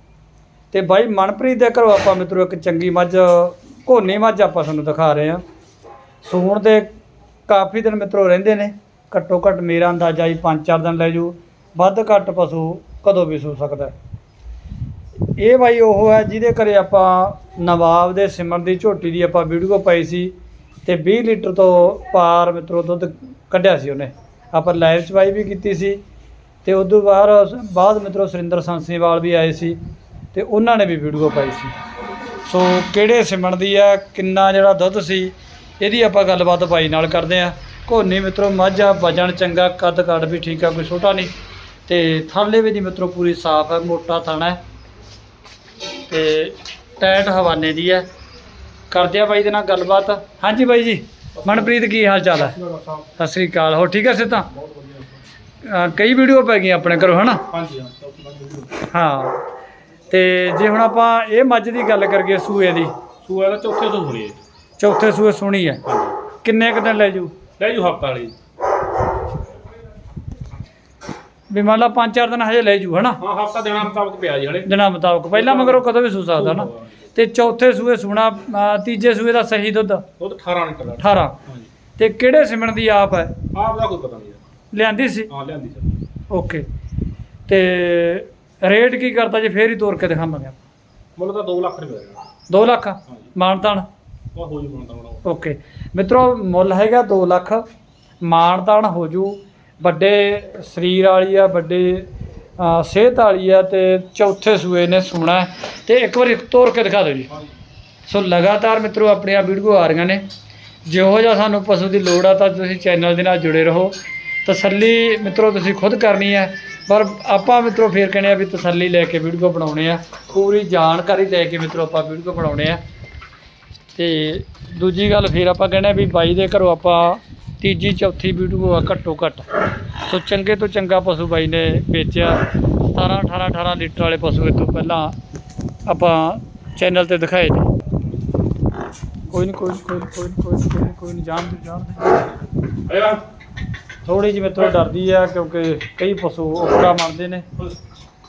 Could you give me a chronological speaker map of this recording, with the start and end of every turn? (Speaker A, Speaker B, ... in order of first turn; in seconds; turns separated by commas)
Speaker A: 0.7-5.4, Speaker A: 6.2-6.9, Speaker A: 7.5-13.9, Speaker A: 15.4-20.3, Speaker A: 20.8-26.0, Speaker A: 26.6-29.8, Speaker A: 30.3-31.7, Speaker A: 32.4-41.3, Speaker A: 41.9-44.6, Speaker A: 46.1-48.0, Speaker A: 48.9-52.6, Speaker B: 51.4-51.8, Speaker B: 52.3-53.1, Speaker A: 53.2-54.5, Speaker B: 54.5-55.1, Speaker A: 55.6-57.4, Speaker B: 57.5-58.8, Speaker A: 58.8-59.4, Speaker A: 60.1-62.9, Speaker B: 63.2-64.4, Speaker A: 64.8-65.8, Speaker B: 65.8-66.1, Speaker A: 66.4-67.3, Speaker B: 67.6-68.3, Speaker A: 71.5-73.2, Speaker B: 73.2-74.7, Speaker A: 74.6-80.0, Speaker B: 75.3-76.9, Speaker B: 80.2-81.7, Speaker A: 81.0-81.4, Speaker A: 82.0-83.3, Speaker B: 83.5-84.4, Speaker A: 84.7-85.3, Speaker B: 85.3-86.0, Speaker A: 86.3-86.6, Speaker A: 87.5-90.6, Speaker B: 91.2-92.2, Speaker A: 92.5-93.8, Speaker B: 94.3-95.2, Speaker A: 95.2-97.6, Speaker A: 98.2-107.3, Speaker A: 108.0-110.2, Speaker A: 110.8-122.8, Speaker A: 123.9-135.2, Speaker A: 135.8-137.7, Speaker A: 139.3-142.3, Speaker B: 142.9-143.2, Speaker A: 144.0-147.4